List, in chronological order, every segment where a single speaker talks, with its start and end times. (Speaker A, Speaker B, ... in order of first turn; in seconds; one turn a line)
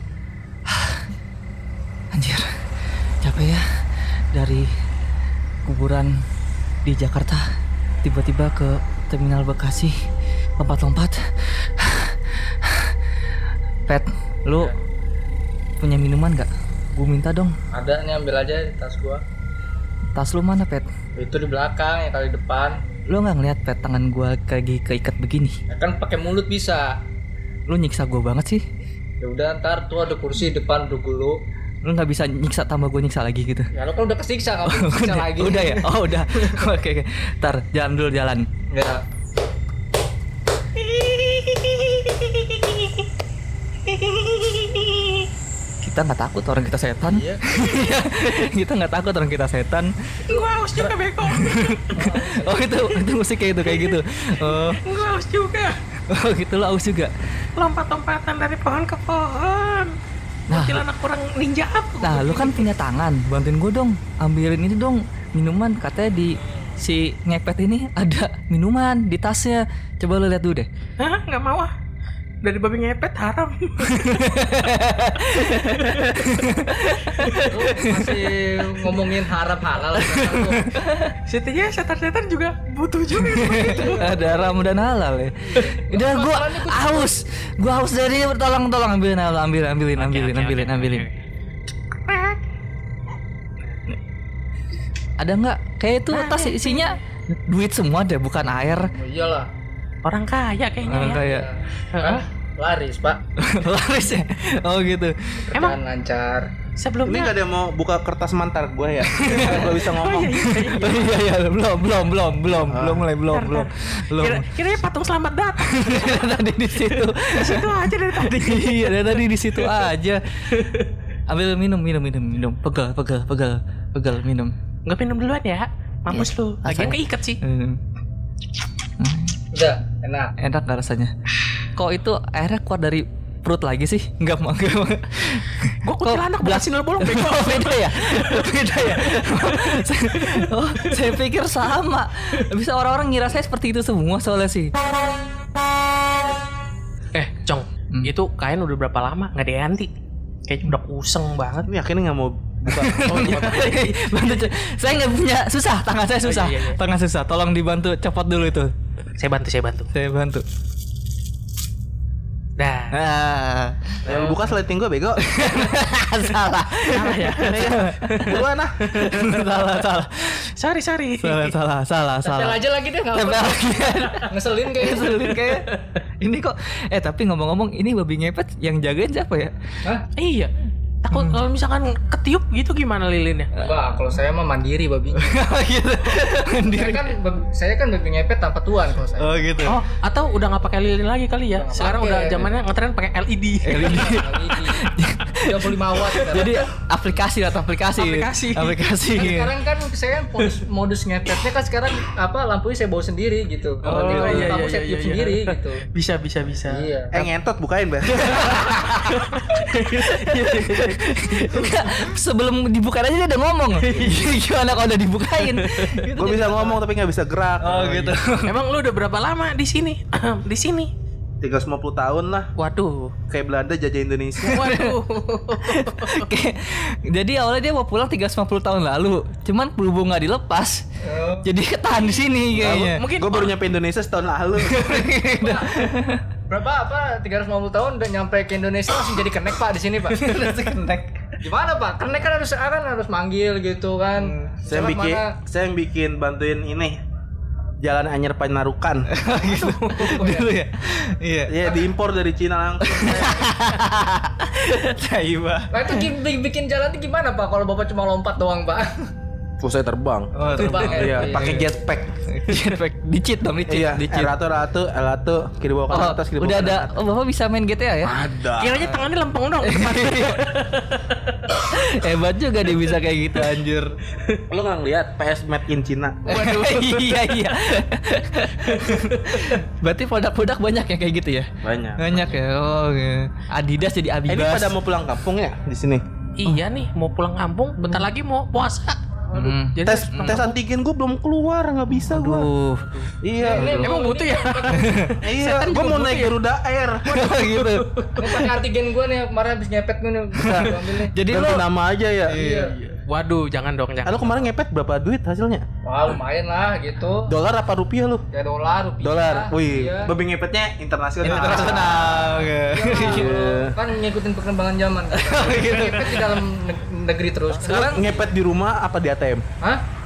Speaker A: 0.7-1.0
Speaker A: 2.1-2.5
Speaker A: 3.2-3.6
Speaker A: 4.3-4.7
Speaker A: 5.7-6.1
Speaker A: 6.8-7.4
Speaker A: 8.0-9.9
Speaker A: 10.6-12.9
Speaker A: 13.9-14.8
Speaker A: 15.8-17.6
Speaker B: 17.7-19.2
Speaker A: 20.1-20.9
Speaker B: 21.2-22.8
Speaker A: 23.1-25.6
Speaker B: 25.7-26.9
Speaker A: 27.7-28.6
Speaker B: 29.2-31.4
Speaker A: 31.8-33.7
Speaker B: 33.8-36.7
Speaker A: 34.7-38.5
Speaker B: 38.7-39.0
Speaker C: 41.0-42.7
Speaker C: 44.1-44.8
Speaker A: 45.8-49.9
Speaker B: 47.1-47.8
Speaker B: 50.2-50.9
Speaker C: 50.2-52.0
Speaker A: 51.3-54.8
Speaker B: 51.9-52.8
Speaker C: 53.6-55.8
Speaker A: 56.1-57.1
Speaker C: 57.6-60.0
Speaker A: 60.5-60.8
Speaker C: 60.5-62.7
Speaker A: 62.0-70.7
Speaker C: 71.0-71.7
Speaker C: 72.4-74.6
Speaker A: 73.9-78.2
Speaker B: 77.4-80.7
Speaker A: 80.1-81.1
Speaker C: 81.3-84.5
Speaker A: 83.2-91.1
Speaker B: 83.7-84.3
Speaker B: 85.5-87.2
Speaker C: 90.0-91.1
Speaker C: 92.0-92.4
Speaker A: 95.2-98.9
Speaker C: 96.1-97.0
Speaker B: 99.0-99.5
Speaker C: 100.0-101.2
Speaker A: 100.9-101.5
Speaker B: 101.0-103.2
Speaker C: 101.9-102.2
Speaker A: 103.4-105.5
Speaker B: 105.5-106.5
Speaker C: 106.8-107.3
Speaker D: 107.1-110.5
Speaker A: 109.1-109.7
Speaker B: 109.4-109.8
Speaker C: 109.6-111.2
Speaker A: 110.5-114.5
Speaker D: 112.7-113.1
Speaker C: 113.3-119.9
Speaker A: 115.6-120.7
Speaker C: 120.5-120.8
Speaker A: 121.3-124.5
Speaker C: 124.8-127.4
Speaker A: 126.1-127.8
Speaker A: 129.0-129.4
Speaker B: 129.5-130.3
Speaker A: 130.4-131.1
Speaker A: 131.8-144.7
Speaker C: 135.8-141.1
Speaker C: 147.1-149.9
Speaker C: 150.4-151.7
Speaker D: 151.7-153.8
Speaker A: 152.7-158.7
Speaker C: 153.1-153.8
Speaker C: 156.2-156.8
Speaker C: 159.2-159.9
Speaker A: 159.9-160.4
Speaker C: 162.6-163.0
Speaker A: 162.9-163.9
Speaker C: 164.1-164.5
Speaker D: 164.1-165.3
Speaker A: 165.2-168.3
Speaker C: 166.9-169.7
Speaker D: 167.5-168.8
Speaker A: 169.0-170.5
Speaker C: 170.6-171.6
Speaker A: 171.2-172.6
Speaker B: 172.2-175.3
Speaker A: 173.1-174.2
Speaker A: 174.8-175.7
Speaker A: 176.2-179.5
Speaker C: 180.2-180.5
Speaker C: 181.0-183.5
Speaker A: 181.1-181.4
Speaker B: 183.6-185.4
Speaker A: 185.2-187.1
Speaker B: 186.7-189.6
Speaker A: 189.2-189.8
Speaker C: 189.7-194.1
Speaker B: 191.6-192.5
Speaker A: 193.7-199.5
Speaker B: 193.8-194.9
Speaker B: 195.4-196.6
Speaker C: 198.0-198.8
Speaker B: 199.1-205.9
Speaker C: 203.8-207.3
Speaker A: 203.8-204.5
Speaker B: 206.7-207.1
Speaker D: 207.1-208.3
Speaker A: 208.2-216.8
Speaker C: 208.3-212.0
Speaker C: 213.8-214.3
Speaker C: 215.4-216.1
Speaker D: 216.1-218.2
Speaker A: 217.6-218.5
Speaker C: 218.4-220.9
Speaker D: 221.4-222.5
Speaker C: 222.6-223.1
Speaker D: 223.3-224.7
Speaker C: 224.4-226.3
Speaker A: 224.5-224.9
Speaker A: 225.5-230.8
Speaker B: 231.0-231.5
Speaker A: 231.4-233.0
Speaker D: 232.5-234.9
Speaker C: 232.9-233.5
Speaker A: 234.6-236.2
Speaker B: 235.3-235.8
Speaker B: 236.5-240.2
Speaker A: 240.1-241.3
Speaker B: 241.4-245.3
Speaker A: 244.2-244.6
Speaker D: 244.7-247.0
Speaker D: 247.8-249.1
Speaker A: 249.1-251.5
Speaker C: 249.4-250.2
Speaker B: 249.8-250.5
Speaker D: 251.5-253.4
Speaker A: 252.8-256.1
Speaker B: 255.7-259.1
Speaker D: 259.6-262.1
Speaker A: 260.4-261.6
Speaker B: 260.5-261.7
Speaker A: 262.3-264.3
Speaker D: 263.7-266.9
Speaker A: 265.9-268.1
Speaker D: 268.0-268.9
Speaker C: 268.6-271.6
Speaker A: 269.6-270.4
Speaker A: 271.7-273.9
Speaker D: 274.5-276.4
Speaker C: 276.3-277.4
Speaker A: 276.3-284.7
Speaker C: 278.7-279.6
Speaker D: 281.6-282.4
Speaker D: 284.3-286.0
Speaker C: 286.4-290.5
Speaker A: 289.3-290.5
Speaker D: 289.9-292.5
Speaker A: 292.1-292.9
Speaker D: 293.2-293.9
Speaker B: 293.4-294.9
Speaker A: 293.6-293.9
Speaker C: 293.6-296.4
Speaker D: 295.2-297.2
Speaker A: 297.1-297.9
Speaker C: 297.1-298.2
Speaker B: 298.2-301.2
Speaker A: 300.4-301.6
Speaker D: 300.5-300.8
Speaker D: 301.3-302.4
Speaker A: 302.3-302.7
Speaker B: 302.3-302.9
Speaker C: 303.1-304.5
Speaker D: 304.1-305.6
Speaker B: 305.9-307.3
Speaker D: 307.3-308.2
Speaker B: 308.3-310.1
Speaker D: 309.0-312.4
Speaker A: 311.2-313.4
Speaker B: 311.2-318.3
Speaker D: 312.9-313.8
Speaker A: 315.1-316.4
Speaker A: 317.6-318.1
Speaker D: 317.7-319.4